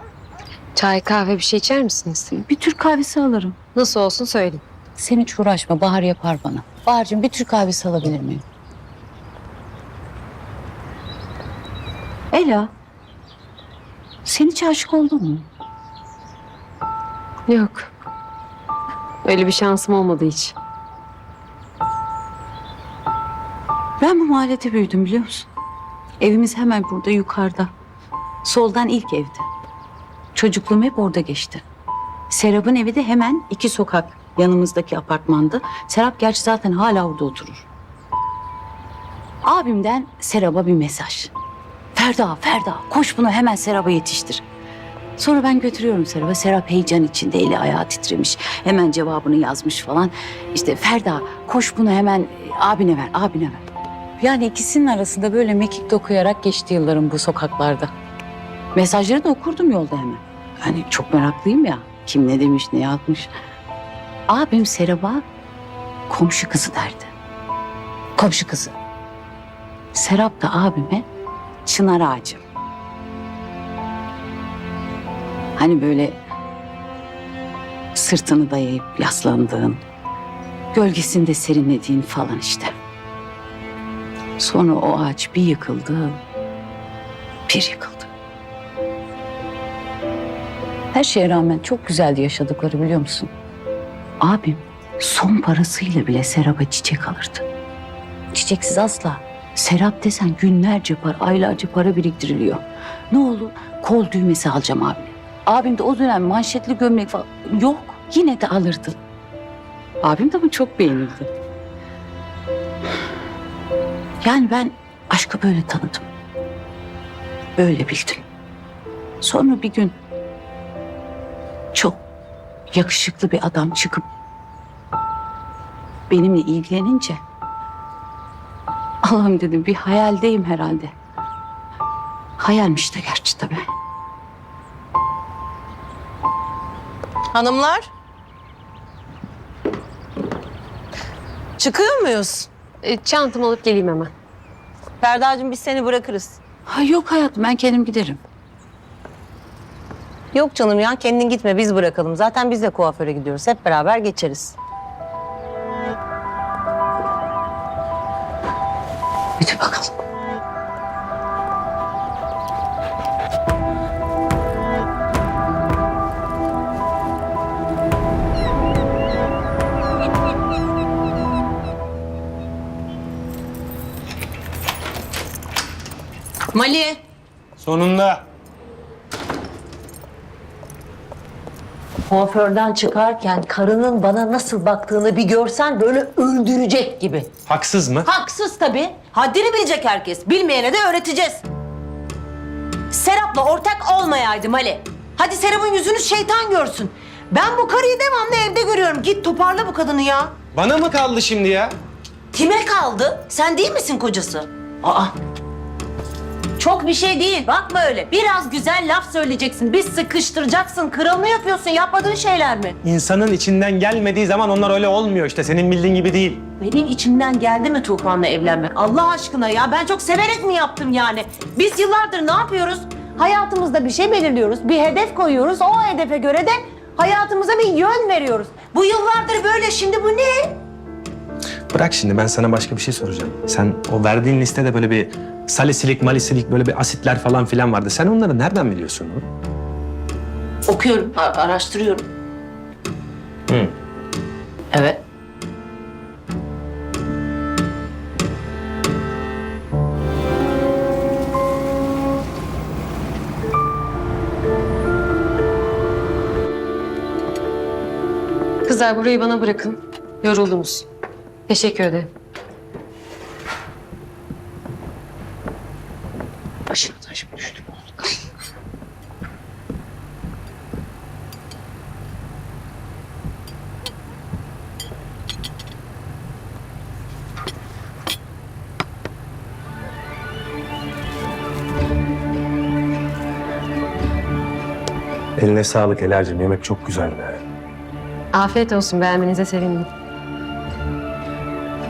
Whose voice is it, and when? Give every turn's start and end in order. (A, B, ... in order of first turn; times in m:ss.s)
0:00.8-0:02.4 A
0:02.4-0:03.6 B
0:03.8-0:04.6 A
0:05.0-0:08.4 B
0:12.3-0:12.7 B
0:14.2-0:15.5 B
0:17.5-0:17.9 A
0:19.2-0:20.5 A
0:24.0-0:25.5 B
0:26.2-0:27.7 B
0:28.4-0:29.4 B
0:30.3-0:31.6 B
0:32.3-0:37.6 B
0:39.4-0:41.3 B
0:41.9-0:44.4 B
0:45.2-0:53.6 B
0:54.2-0:57.9 B
0:58.8-1:03.3 B
1:04.3-1:05.2 B
1:06.1-1:07.1 B
1:08.2-1:08.8 B
1:09.9-1:11.1 B
1:11.6-1:12.4 B
1:15.6-1:16.2 B
1:17.9-1:19.8 B
1:20.7-1:22.7 B
1:24.4-1:26.2 B
1:27.5-1:28.1 B
1:30.9-1:33.3 B
1:34.2-1:37.4 B
1:38.3-1:49.0 B
1:50.0-1:51.3 B
1:54.2-1:56.1 B
1:57.6-1:58.2 B
1:59.2-1:59.9 B
2:01.7-2:02.0 B
2:02.7-2:04.0 B
2:06.1-2:07.2 B
2:09.0-2:10.9 B
2:12.4-2:13.6 B
2:17.3-2:17.9 C
2:21.6-2:22.5 C
2:22.8-2:24.1 A
2:25.0-2:26.4 C
2:26.7-2:28.2 B
2:30.3-2:34.6 C
2:39.4-2:39.9 B
2:56.5-2:57.0 C
2:57.6-2:58.2 D
3:02.1-3:07.3 C
3:07.5-3:08.1 D
3:08.0-3:11.4 C
3:12.9-3:20.3 C
3:20.5-3:21.8 D
3:22.3-3:25.1 C
3:26.6-3:32.8 C
3:32.8-3:36.4 D
3:36.6-3:50.6 C
3:51.7-3:59.3 D
4:00.7-4:02.1 C
4:04.7-4:05.0 C
4:18.7-4:20.9 A
4:21.5-4:22.1 A
4:26.7-4:27.6 B
4:45.4-4:47.4 D
4:48.3-4:49.9 A